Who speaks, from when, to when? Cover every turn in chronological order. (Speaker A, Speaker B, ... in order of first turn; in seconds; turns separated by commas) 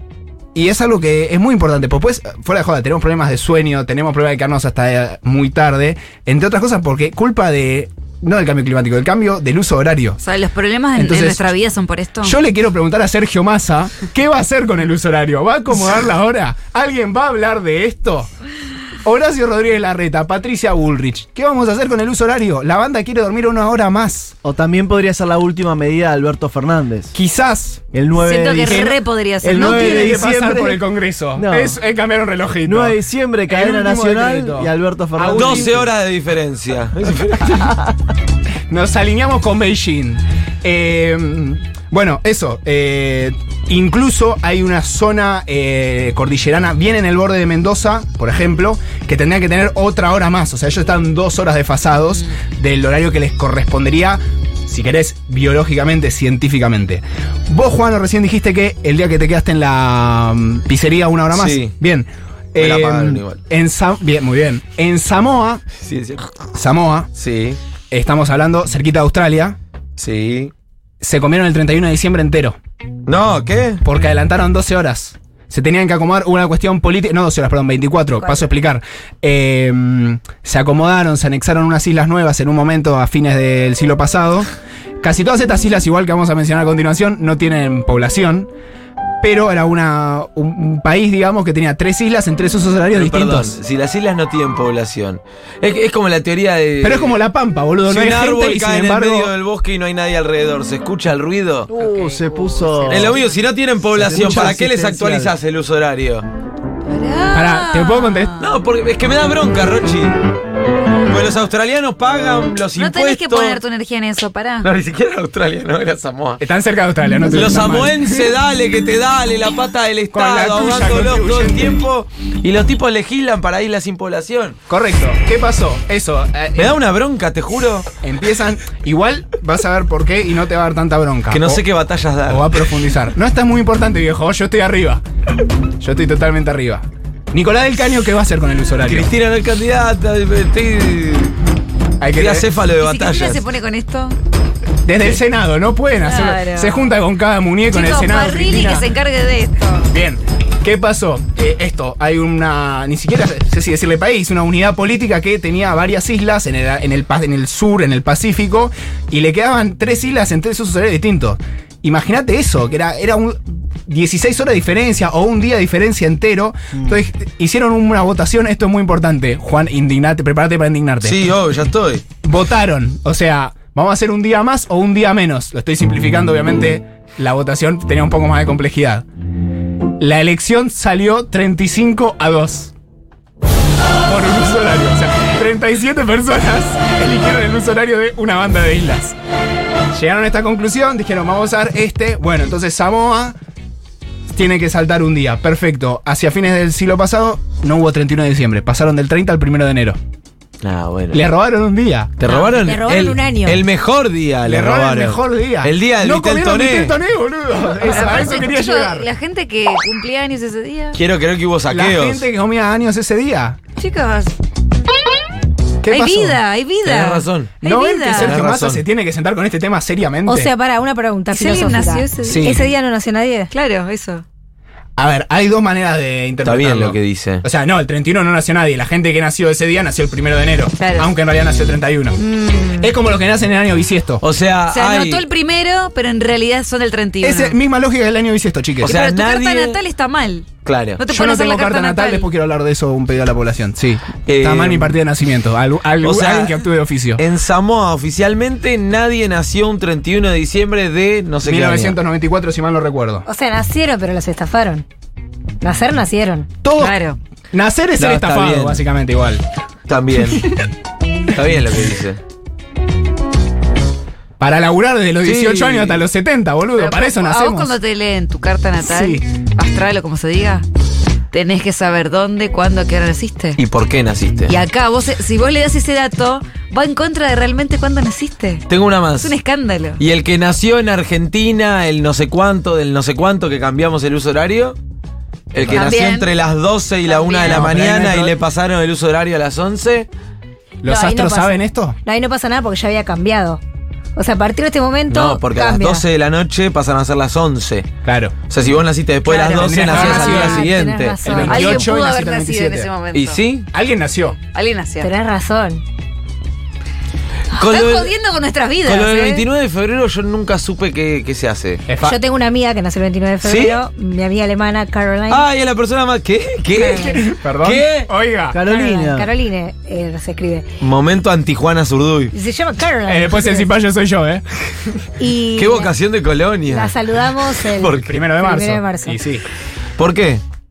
Speaker A: 0.5-10.2, Speaker B: 10.2-12.3, Speaker A: 10.9-11.5, Speaker A: 12.2-18.3, Speaker A: 19.0-24.3, Speaker C: 24.4-27.1, Speaker A: 27.1-27.8, Speaker C: 27.9-31.8, Speaker B: 28.2-30.3, Speaker A: 28.6-29.0, Speaker A: 29.5-35.8, Speaker C: 32.6-35.9, Speaker D: 35.3-37.8, Speaker A: 38.7-65.6, Speaker D: 61.3-61.8, Speaker D: 62.5-63.4, Speaker D: 65.8-66.3, Speaker A: 66.5-67.1, Speaker D: 67.1-67.6, Speaker A: 67.9-69.6, Speaker D: 70.0-70.5, Speaker A: 71.0-72.6, Speaker D: 73.0-73.8, Speaker A: 73.8-84.5, Speaker A: 85.0-88.5, Speaker A: 89.2-93.6, Speaker D: 92.9-97.2, Speaker A: 96.8-99.3, Speaker D: 97.9-101.7, Speaker C: 101.7-103.3, Speaker D: 102.9-106.3, Speaker C: 103.9-105.3, Speaker B: 106.8-108.4, Speaker A: 107.3-108.4, Speaker D: 108.4-110.3, Speaker D: 111.1-113.6, Speaker B: 112.8-114.7, Speaker D: 114.6-116.4, Speaker A: 116.4-118.1, Speaker D: 117.3-124.5, Speaker A: 120.1-121.8, Speaker A: 124.7-126.8, Speaker D: 126.6-127.9, Speaker A: 128.0-131.6, Speaker D: 131.3-132.7, Speaker A: 132.2-135.0, Speaker A: 135.8-139.1, Speaker D: 138.8-141.3, Speaker A: 142.0-142.5, Speaker D: 142.1-143.4, Speaker B: 142.8-144.2, Speaker A: 144.8-148.9, Speaker B: 146.0-146.8, Speaker B: 147.7-149.9, Speaker A: 149.9-171.2, Speaker D: 171.0-172.0, Speaker A: 172.2-179.0, Speaker A: 180.0-182.7, Speaker A: 184.1-189.2, Speaker A: 189.9-193.4, Speaker A: 194.3-200.0, Speaker D: 200.6-201.2, Speaker A: 201.1-202.1, Speaker D: 202.2-207.0, Speaker E: 202.3-203.6, Speaker A: 204.4-209.1, Speaker B: 207.8-211.0, Speaker D: 210.9-212.3, Speaker A: 211.7-213.6, Speaker B: 213.8-214.3, Speaker A: 215.8-216.4, Speaker B: 215.9-218.3, Speaker D: 216.8-217.6, Speaker A: 217.6-220.5, Speaker D: 218.1-218.8, Speaker E: 220.2-223.5, Speaker B: 221.3-222.4, Speaker A: 222.2-222.6, Speaker B: 223.5-224.2, Speaker A: 225.0-232.2, Speaker D: 226.4-227.4, Speaker B: 230.8-231.1, Speaker B: 232.2-232.9, Speaker A: 232.8-234.2, Speaker D: 234.2-235.3, Speaker B: 234.7-237.6, Speaker A: 237.2-238.9, Speaker B: 238.8-242.3, Speaker D: 238.8-239.8, Speaker D: 240.6-241.0, Speaker A: 241.1-247.2, Speaker D: 244.2-245.0, Speaker D: 246.0-246.6, Speaker D: 247.2-252.0, Speaker A: 251.4-253.2, Speaker E: 253.2-254.8, Speaker E: 255.6-256.5, Speaker A: 256.6-257.0, Speaker B: 256.8-257.2, Speaker A: 257.5-259.4, Speaker D: 258.0-258.8, Speaker D: 259.9-260.5, Speaker D: 261.3-262.2, Speaker A: 264.4-267.8, Speaker D: 265.2-266.0, Speaker B: 266.8-270.6, Speaker A: 268.8-269.2, Speaker B: 271.3-273.6, Speaker D: 273.6-274.5, Speaker B: 274.5-278.6, Speaker D: 278.7-279.3, Speaker B: 279.2-280.0, Speaker D: 280.0-284.8, Speaker D: 285.5-290.1, Speaker B: 285.7-286.3, Speaker B: 287.0-287.7, Speaker A: 287.4-288.4, Speaker A: 290.8-291.9, Speaker E: 290.8-293.6, Speaker E: 294.1-296.0, Speaker D: 295.1-297.9, Speaker A: 298.0-298.4, Speaker D: 298.5-301.4, Speaker B: 299.2-299.6, Speaker E: 299.5-302.0, Speaker A: 299.6-300.7, Speaker A: 301.2-302.9, Speaker B: 301.4-303.4, Speaker D: 303.1-303.7, Speaker A: 303.7-304.4, Speaker B: 304.4-305.1, Speaker E: 305.0-305.8, Speaker B: 307.5-309.4, Speaker D: 307.5-308.1, Speaker D: 308.8-311.8, Speaker A: 311.9-312.2, Speaker E: 312.0-315.5, Speaker D: 313.4-313.8, Speaker D: 315.3-318.1, Speaker E: 316.7-317.2, Speaker A: 316.9-318.6, Speaker C: 318.5-319.3, Speaker E: 318.6-320.6, Speaker D: 320.8-322.3, Speaker E: 322.3-323.7, Speaker A: 323.1-324.4, Speaker E: 325.2-325.9, Speaker D: 325.6-328.2, Speaker E: 326.6-329.2, Speaker A: 328.0-329.4, Speaker D: 330.0-330.4